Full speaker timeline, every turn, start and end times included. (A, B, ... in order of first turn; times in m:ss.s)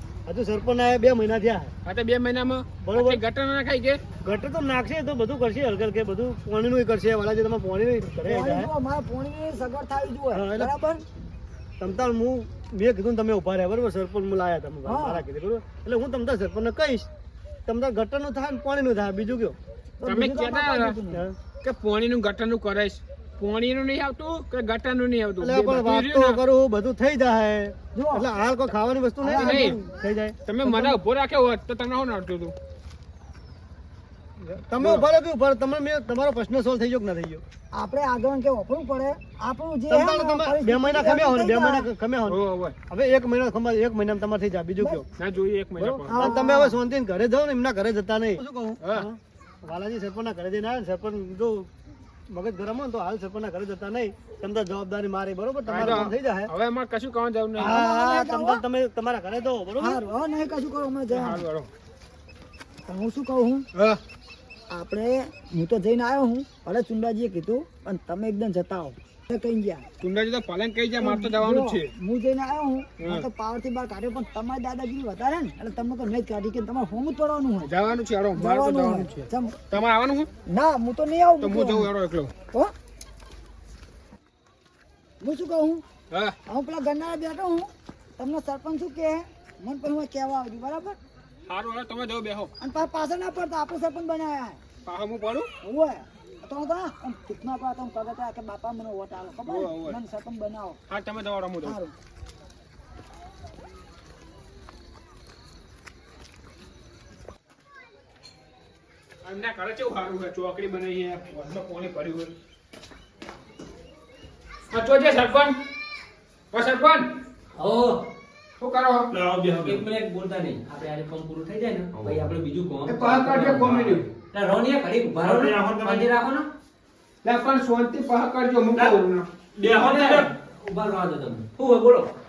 0:00.2-0:01.7 A
0:01.8-0:04.0 B
0:02.8-0:03.2 A
0:04.2-0:08.7 A
0:08.2-0:11.0 C
0:10.3-0:10.7 A
0:11.8-0:17.1 A
0:14.8-0:15.2 C
0:17.6-0:19.6 A
0:20.0-0:21.2 C
0:20.0-0:21.0 B
0:21.1-0:21.4 A
0:21.5-0:26.4 B
0:25.4-0:30.4 A
0:27.9-0:28.2 C
0:29.2-0:29.8 C
0:29.4-0:29.8 B
0:30.5-0:32.5 B
0:30.6-0:31.0 C
0:34.4-0:37.4 A
0:34.8-0:35.0 B
0:37.7-0:41.9 C
0:39.9-0:42.4 A
0:42.2-0:42.7 B
0:42.9-0:45.0 A
0:45.2-0:46.3 B
0:45.8-0:46.8 C
0:46.1-0:51.7 A
0:48.8-0:49.0 B
0:52.3-0:56.5 A
0:55.6-0:57.8 B
0:57.6-0:58.6 C
0:57.6-1:00.0 A
0:59.8-1:01.4 C
1:01.1-1:01.7 B
1:02.9-1:03.7 C
1:03.7-1:04.0 B
1:04.7-1:09.8 C
1:10.0-1:11.9 B
1:11.0-1:17.7 C
1:13.0-1:13.2 B
1:17.6-1:20.3 B
1:18.4-1:19.6 C
1:20.5-1:21.9 C
1:21.4-1:22.3 B
1:25.2-1:25.8 C
1:26.5-1:31.0 C
1:31.5-1:32.5 B
1:32.6-1:34.6 C
1:34.8-1:35.5 B
1:35.6-1:40.8 C
1:39.4-1:40.0 B
1:40.9-1:41.8 B
1:41.6-1:41.9 C
1:49.2-1:52.3 B
1:54.7-1:55.5 B
1:56.5-1:57.0 B
1:57.6-1:58.0 D
1:58.6-1:59.1 B
1:59.1-1:59.8 E
1:59.6-2:03.7 D
2:01.9-2:02.2 E
2:02.9-2:04.0 B
2:03.4-2:04.0 E
2:04.2-2:06.4 D
2:05.2-2:06.1 E
2:07.2-2:09.2 B
2:09.6-2:10.3 E
2:09.7-2:12.1 D